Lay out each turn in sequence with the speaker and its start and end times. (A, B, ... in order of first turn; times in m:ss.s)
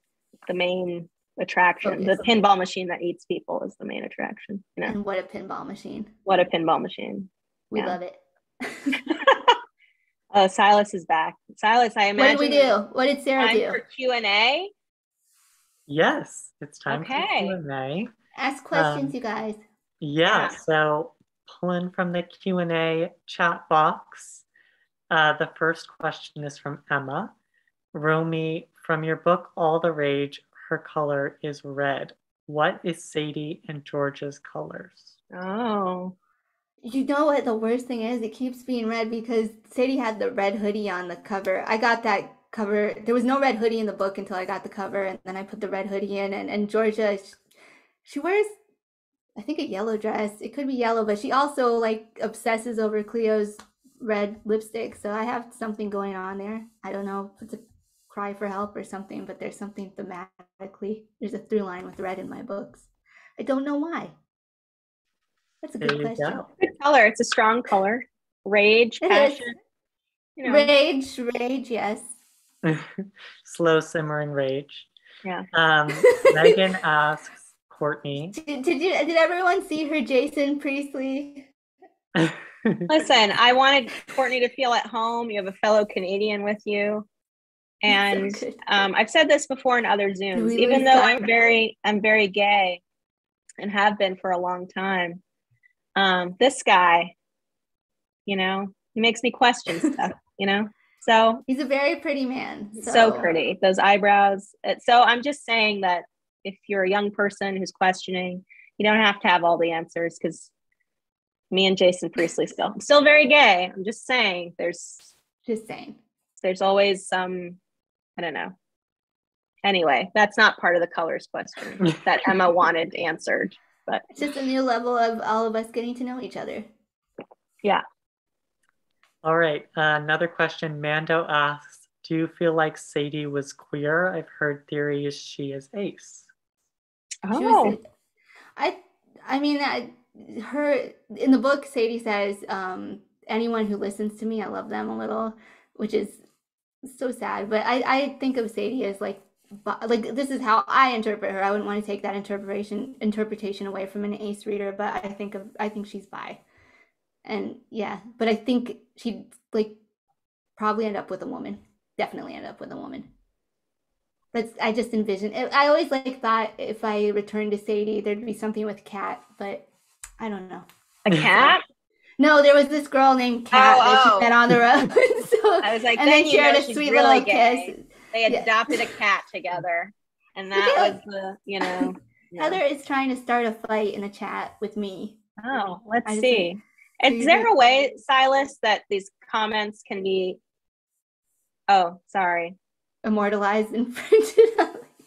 0:00.5-0:04.9 A
0:01.8-0:02.2 B
0:04.9-0:06.1 B
0:06.3-0:08.0 A
0:07.7-0:09.1 B
0:09.1-0:09.6 A
0:10.3-0:12.7 A
0:12.2-0:13.8 B
0:13.4-0:14.7 A
0:15.9-0:18.1 C
0:16.9-0:17.5 A
0:18.4-0:19.6 B
0:18.7-0:19.1 C
0:20.0-0:24.4 C
0:20.3-0:20.6 A
0:25.1-0:27.3 C
0:27.9-0:35.2 C
0:35.3-0:36.1 A
0:36.8-0:47.4 B
0:48.0-0:48.5 B
0:49.4-1:04.1 B
1:05.6-1:06.5 B
1:05.8-1:06.4 C
1:06.6-1:09.6 A
1:09.0-1:09.5 B
1:10.4-1:10.7 A
1:10.4-1:12.2 B
1:12.6-1:14.9 C
1:15.5-1:18.4 C
1:16.0-1:16.6 B
1:18.3-1:21.5 B
1:22.2-1:22.9 C
1:22.9-1:27.1 A
1:27.8-1:32.8 A
1:27.9-1:28.6 B
1:30.3-1:31.2 B
1:33.6-1:35.2 A
1:36.0-1:37.1 A
1:38.3-1:41.4 A
1:41.5-1:43.3 B
1:42.8-1:50.5 A
1:51.5-1:55.1 A
1:55.4-1:56.0 B
1:56.4-1:57.6 A
1:58.2-1:58.5 A
1:59.6-2:04.1 A
2:04.2-2:06.7 B
2:09.2-2:16.3 C
2:17.3-2:17.8 A
2:17.3-2:17.8 B
2:18.6-2:26.2 B
2:26.8-2:36.4 B
2:37.2-2:39.8 B
2:40.6-2:43.1 B
2:44.3-2:49.7 B
2:50.2-2:50.7 B
2:51.1-2:51.6 A
2:51.2-2:51.5 B
2:52.2-2:58.8 B
2:53.5-2:54.3 A
2:55.6-3:02.6 A
3:00.5-3:01.0 B
3:01.6-3:05.2 B
3:05.4-3:10.4 A
3:06.1-3:06.5 B
3:07.1-3:07.5 B
3:11.7-3:12.6 A
3:13.0-3:14.9 B